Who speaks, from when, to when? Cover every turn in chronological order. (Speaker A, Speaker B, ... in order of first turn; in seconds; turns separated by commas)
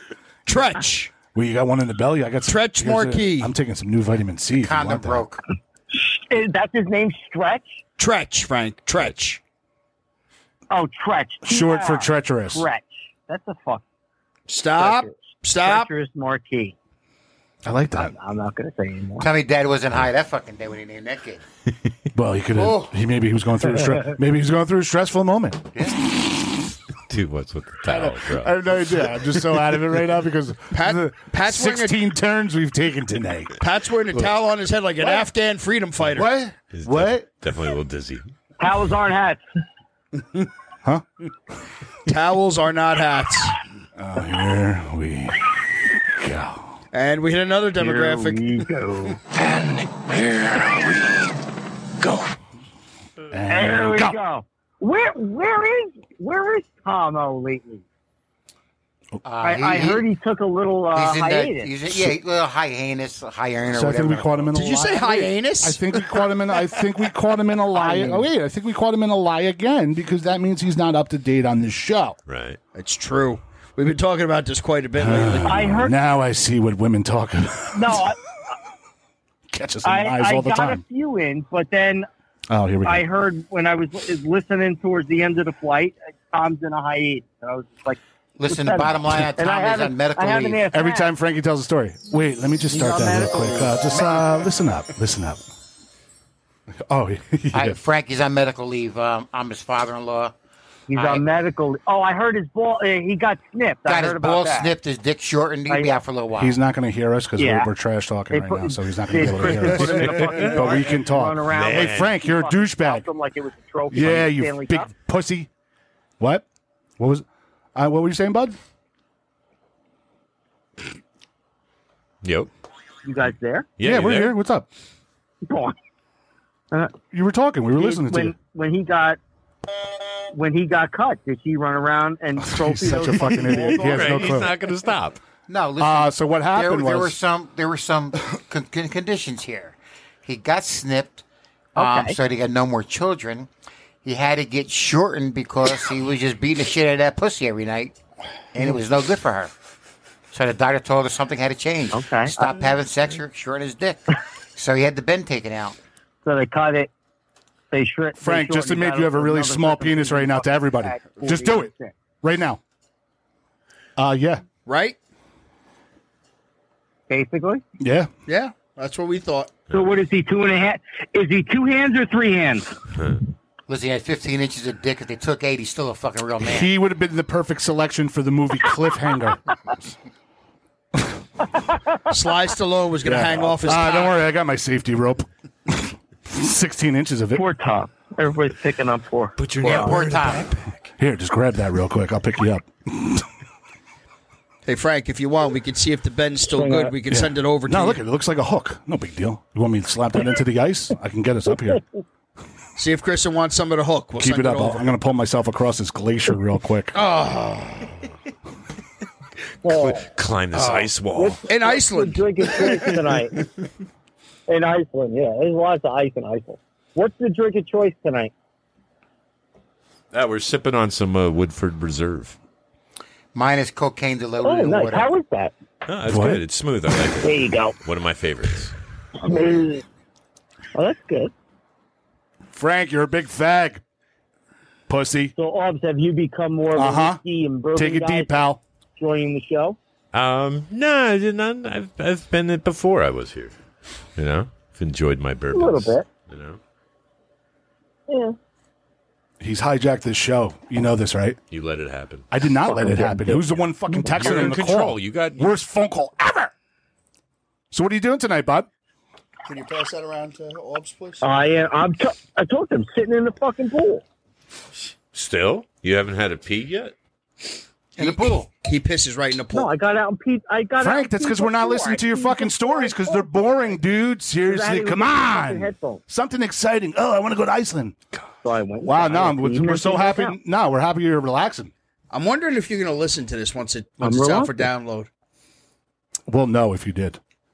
Speaker A: 0.5-1.1, Speaker B: 1.3-5.3, Speaker A: 2.4-3.5, Speaker C: 4.6-5.4, Speaker D: 5.9-7.8, Speaker A: 8.0-9.4, Speaker D: 10.7-13.8, Speaker B: 11.4-12.7, Speaker A: 14.5-15.9, Speaker D: 14.8-16.8, Speaker B: 17.6-18.1, Speaker D: 17.9-19.3, Speaker C: 19.2-21.4, Speaker B: 22.1-25.7, Speaker A: 22.6-22.9, Speaker D: 23.7-24.1, Speaker E: 27.1-28.6, Speaker B: 27.9-33.6, Speaker A: 30.7-32.0, Speaker A: 33.6-36.3, Speaker B: 36.1-37.3, Speaker E: 36.7-38.3, Speaker D: 38.6-39.4, Speaker A: 42.1-43.5, Speaker B: 44.0-45.5, Speaker B: 46.1-46.8, Speaker A: 46.9-48.6, Speaker D: 47.8-49.2, Speaker B: 53.3-54.2, Speaker D: 53.5-57.8, Speaker C: 59.2-60.0, Speaker D: 59.4-61.7, Speaker C: 60.9-64.5, Speaker B: 63.7-72.2, Speaker A: 64.5-66.3, Speaker D: 67.7-68.3, Speaker E: 72.3-72.6, Speaker A: 72.8-75.8, Speaker B: 75.0-78.1, Speaker D: 75.5-75.9, Speaker D: 77.7-78.2, Speaker B: 79.5-80.8, Speaker D: 79.8-82.1, Speaker B: 82.5-83.1, Speaker D: 82.8-91.1, Speaker C: 88.4-90.6, Speaker B: 90.7-95.5, Speaker D: 92.7-93.8, Speaker B: 96.9-97.8, Speaker C: 97.5-100.3, Speaker D: 100.9-104.7, Speaker C: 100.9-101.2, Speaker C: 103.9-106.5, Speaker D: 105.7-106.0, Speaker B: 106.4-113.1, Speaker D: 107.4-107.7, Speaker D: 108.3-114.9, Speaker E: 109.4-110.9, Speaker E: 111.5-112.1, Speaker B: 113.9-115.5, Speaker B: 116.2-116.5, Speaker B: 117.0-118.6, Speaker E: 122.2-122.5, Speaker D: 123.0-123.7, Speaker E: 123.8-124.3, Speaker B: 123.8-124.7, Speaker D: 125.4-125.8, Speaker B: 127.1-128.4, Speaker D: 127.8-129.2, Speaker D: 130.3-134.2, Speaker B: 132.4-134.6, Speaker E: 133.6-135.2, Speaker C: 135.5-141.2, Speaker B: 135.8-137.2, Speaker D: 141.8-142.2, Speaker C: 141.8-143.5, Speaker C: 144.0-147.9, Speaker C: 148.5-149.5, Speaker C: 150.3-155.8, Speaker D: 151.9-152.5, Speaker D: 156.2-156.9, Speaker D: 157.7-161.9, Speaker B: 158.2-162.6, Speaker B: 164.0-164.4, Speaker A: 164.7-165.0, Speaker D: 167.1-167.6, Speaker B: 167.8-168.1, Speaker A: 168.3-169.6, Speaker D: 169.7-172.7, Speaker C: 173.7-176.7, Speaker B: 176.4-179.4, Speaker A: 182.1-184.1, Speaker B: 183.0-187.5, Speaker D: 187.3-189.9, Speaker E: 189.4-190.9, Speaker A: 189.6-190.0, Speaker C: 189.6-190.5, Speaker B: 191.0-193.2, Speaker A: 194.7-198.0, Speaker D: 196.5-197.0, Speaker B: 197.1-201.8, Speaker A: 202.8-204.8, Speaker B: 204.2-207.0, Speaker A: 206.9-208.0, Speaker D: 209.6-210.1, Speaker E: 209.7-211.4, Speaker B: 210.5-210.9, Speaker D: 211.1-213.5, Speaker A: 211.5-212.8, Speaker E: 212.6-213.2, Speaker D: 214.5-218.3, Speaker E: 220.1-222.4, Speaker C: 223.3-225.1, Speaker D: 224.4-225.5, Speaker E: 225.9-228.7, Speaker B: 226.1-226.4, Speaker D: 227.2-227.8, Speaker D: 229.2-229.8, Speaker D: 230.7-231.3, Speaker B: 232.6-233.8, Speaker B: 234.9-235.3, Speaker D: 235.3-239.8, Speaker B: 236.8-237.2, Speaker B: 237.8-238.6, Speaker E: 240.1-243.6, Speaker E: 244.2-246.6, Speaker D: 245.5-246.1, Speaker D: 248.1-248.4, Speaker B: 249.4-251.4, Speaker E: 251.5-252.3, Speaker B: 252.3-256.5, Speaker D: 252.7-254.1, Speaker E: 254.0-255.5, Speaker B: 257.7-258.7, Speaker A: 259.5-261.2, Speaker D: 261.2-264.0, Speaker E: 265.1-266.9, Speaker C: 268.0-268.5, Speaker A: 268.0-269.7, Speaker D: 269.5-273.8, Speaker B: 270.8-278.0, Speaker D: 274.4-276.0, Speaker D: 278.4-280.4, Speaker B: 278.8-281.7, Speaker A: 282.1-285.1, Speaker D: 284.0-284.7, Speaker B: 286.3-287.2